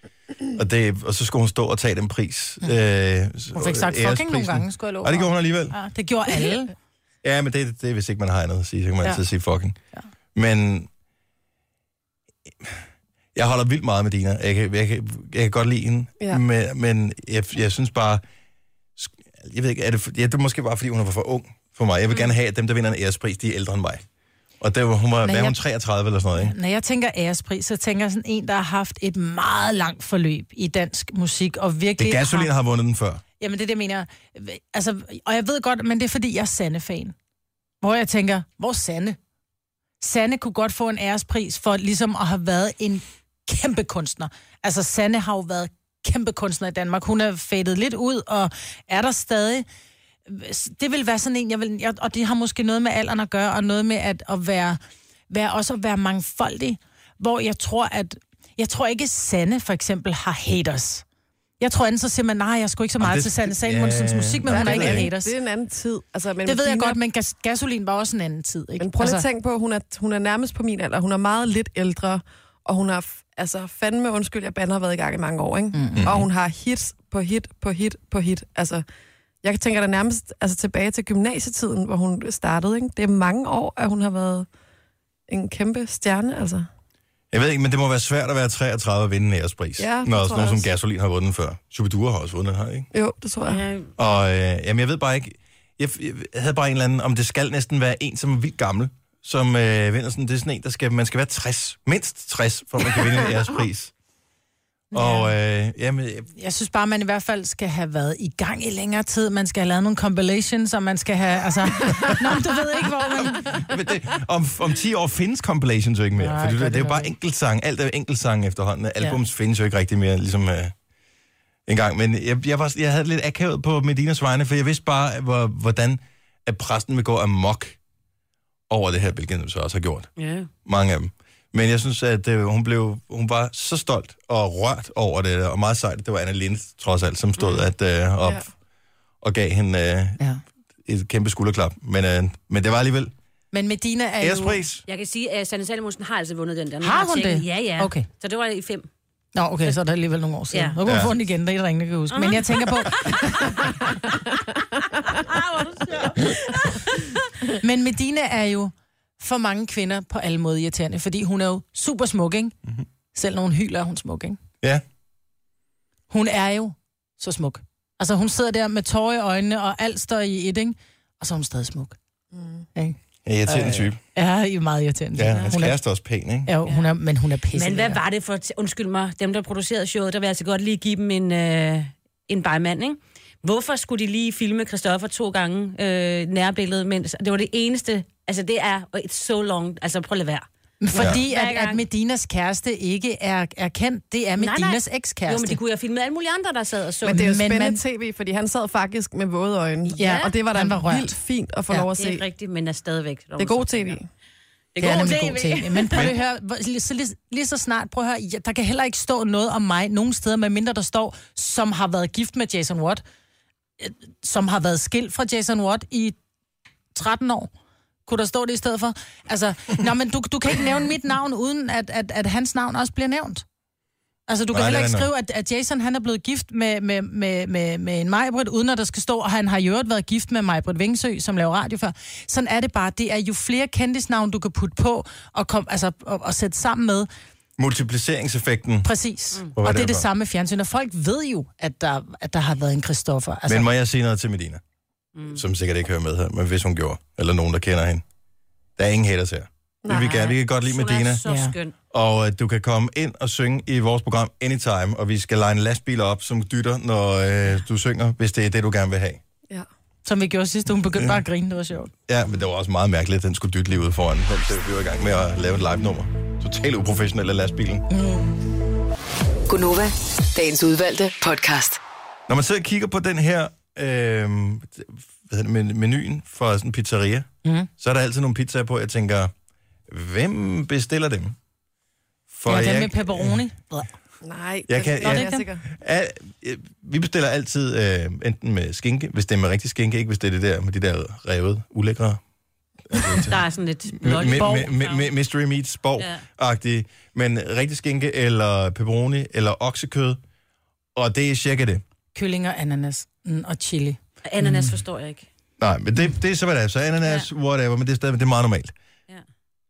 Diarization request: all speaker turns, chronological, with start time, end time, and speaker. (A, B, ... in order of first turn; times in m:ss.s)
0:00.6-0:05.8 A
0:03.6-0:06.7 B
0:07.2-0:09.8 A
0:10.4-0:10.9 A
0:13.4-0:18.2 A
0:19.0-0:24.0 A
0:24.6-0:26.6 A
0:25.2-0:25.6 B
0:26.4-0:32.5 B
0:32.0-0:33.2 A
0:33.4-0:37.2 B
0:37.8-0:39.2 B
0:40.0-0:49.7 B
0:50.3-0:54.8 B
0:55.3-1:01.0 B
1:01.6-1:05.3 B
1:03.0-1:05.1 A
1:04.5-1:07.0 C
1:06.4-1:09.2 B
1:08.8-1:18.8 C
1:15.7-1:16.0 B
1:16.0-1:16.3 A
1:19.4-1:24.5 C
1:25.3-1:26.7 C
1:27.3-1:32.9 A
1:29.8-1:30.7 C
1:32.9-1:33.6 C
1:33.4-1:33.9 D
1:34.0-1:43.9 A
1:44.9-1:45.3 B
1:44.9-1:46.3 A
1:46.4-1:53.6 B
1:53.3-2:00.7 A
1:56.2-1:57.1 B
2:01.7-2:07.8 A
2:08.7-2:10.1 A
2:10.2-2:10.5 D
2:10.6-2:18.5 A
2:17.4-2:17.7 D
2:19.2-2:20.2 A
2:20.8-2:23.1 A
2:23.5-2:24.6 B
2:24.2-2:24.8 A
2:24.9-2:28.9 D
2:26.8-2:28.1 B
2:29.4-2:33.0 B
2:30.5-2:30.8 D
2:30.8-2:31.2 A
2:32.1-2:34.2 D
2:35.0-2:37.2 D
2:37.6-2:42.6 B
2:43.1-2:44.4 B
2:46.1-2:52.0 B
2:52.3-2:52.7 C
2:52.8-2:55.8 B
2:53.2-2:54.0 A
2:55.2-2:56.5 A
2:56.5-2:58.0 B
2:56.7-2:56.9 D
2:57.5-3:11.8 D
3:10.8-3:15.6 B
3:11.0-3:11.2 A
3:14.4-3:17.3 D
3:17.0-3:22.2 C
3:17.1-3:17.8 B
3:19.9-3:20.3 D
3:20.0-3:21.1 B
3:22.0-3:24.0 D
3:23.4-3:24.1 C
3:24.8-3:26.1 D
3:24.8-3:33.0 B
3:33.8-3:36.2 B
3:37.0-3:37.5 B
3:38.1-3:43.4 B
3:44.3-3:57.1 B
3:44.5-3:45.1 A
3:57.6-3:58.9 A
3:58.8-4:03.7 B
3:59.6-4:00.1 A
4:03.5-4:04.6 A
4:05.2-4:05.4 D
4:05.3-4:08.0 A
4:08.8-4:11.2 A
4:09.8-4:10.3 C
4:10.1-4:11.7 D
4:11.3-4:11.5 B
4:11.9-4:19.2 A
4:20.0-4:21.9 B
4:22.1-4:27.9 A
4:27.9-4:28.4 B
4:29.5-4:31.8 E
4:32.3-4:39.3 A
4:37.4-4:37.7 B
4:39.9-4:41.4 A
4:42.3-4:43.4 A
4:42.5-4:43.9 B
4:44.2-4:45.6 C
4:44.7-4:52.2 A
4:45.0-4:45.5 B
4:52.9-4:53.4 A
4:53.3-4:55.1 D
4:54.0-5:00.2 A
4:56.0-4:56.2 D
5:01.0-5:01.8 A
5:02.1-5:04.8 B
5:04.2-5:05.3 D
5:05.6-5:08.7 A